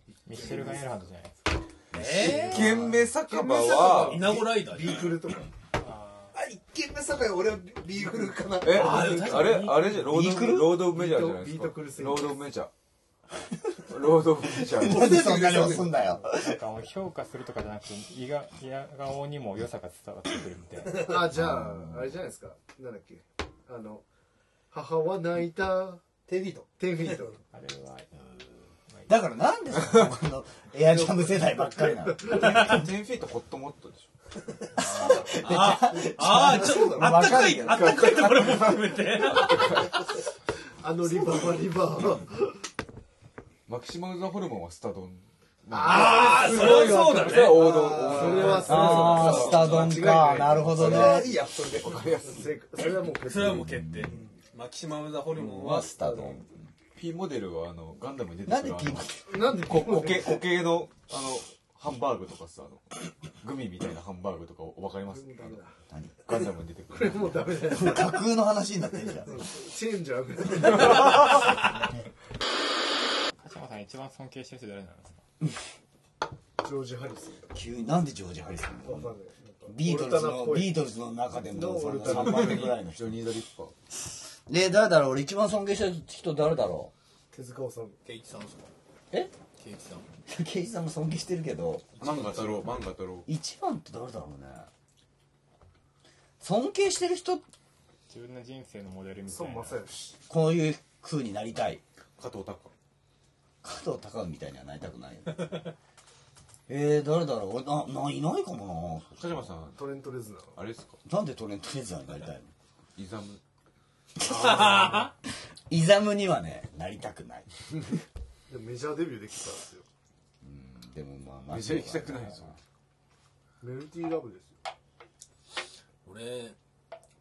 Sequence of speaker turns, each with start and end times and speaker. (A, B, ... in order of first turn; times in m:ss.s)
0:00.2-0:01.6 A
0:00.3-0:00.9 B
0:00.3-0:00.8 C
0:01.9-0:02.7 D
0:02.0-0:03.0 E
0:02.3-0:04.4 F
0:02.5-0:02.8 C
0:03.3-0:05.5 C
0:03.8-0:05.4 D
0:05.8-0:06.3 A
0:06.3-0:09.1 B
0:08.6-0:12.7 F
0:08.6-0:10.0 D
0:09.3-0:10.8 E
0:10.8-0:12.4 C
0:13.9-0:15.1 F
0:14.6-0:16.6 E
0:14.8-0:16.0 B
0:16.3-0:21.1 A
0:21.0-0:24.0 C
0:21.2-0:22.2 E
0:24.7-0:26.0 C
0:26.3-0:27.1 B
0:26.8-0:27.4 C
0:27.5-0:29.1 A
0:29.1-0:32.8 E
0:31.4-0:32.8 C
0:32.2-0:34.1 F
0:34.8-0:38.2 E
0:35.0-0:39.8 D
0:36.4-0:37.5 B
0:37.6-0:39.8 F
0:40.8-0:42.6 C
0:43.7-0:52.5 F
0:45.7-0:51.2 C
0:45.8-0:50.0 D
0:45.9-0:47.3 B
0:48.1-0:52.0 B
0:48.5-0:51.3 E
0:52.2-0:53.7 C
0:53.2-0:55.9 D
0:53.4-0:54.2 E
0:55.4-0:56.7 E
0:56.0-0:56.4 C
0:57.0-1:05.6 F
0:58.4-0:59.4 E
0:59.3-1:00.4 C
1:05.1-1:05.8 C
1:06.2-1:07.7 F
1:06.9-1:08.2 C
1:07.6-1:09.4 E
1:09.2-1:11.6 C
1:13.4-1:15.2 A
1:16.6-1:17.5 C
1:17.5-1:19.1 E
1:18.8-1:20.7 C
1:19.7-1:23.2 E
1:21.5-1:22.7 C
1:22.0-1:23.7 F
1:24.5-1:26.9 E
1:27.3-1:28.0 C
1:28.0-1:28.7 D
1:29.6-1:30.1 D
1:30.3-1:31.9 E
1:32.0-1:33.3 F
1:33.2-1:34.7 E
1:36.4-1:37.4 E
1:38.1-1:39.9 A
1:39.3-1:40.2 C
1:40.3-1:41.8 E
1:42.2-1:42.7 F
1:43.6-1:45.7 E
1:46.7-1:49.2 E
1:49.2-1:49.9 F
1:49.8-1:50.6 C
1:50.5-1:51.0 F
1:51.0-1:52.5 E
1:53.0-1:53.4 F
1:54.2-1:55.1 E
1:54.2-1:55.1 D
1:55.7-1:57.5 E
1:58.5-1:59.8 C
2:00.4-2:02.6 E
2:01.5-2:02.6 F
2:03.6-2:04.5 C
2:06.0-2:06.6 D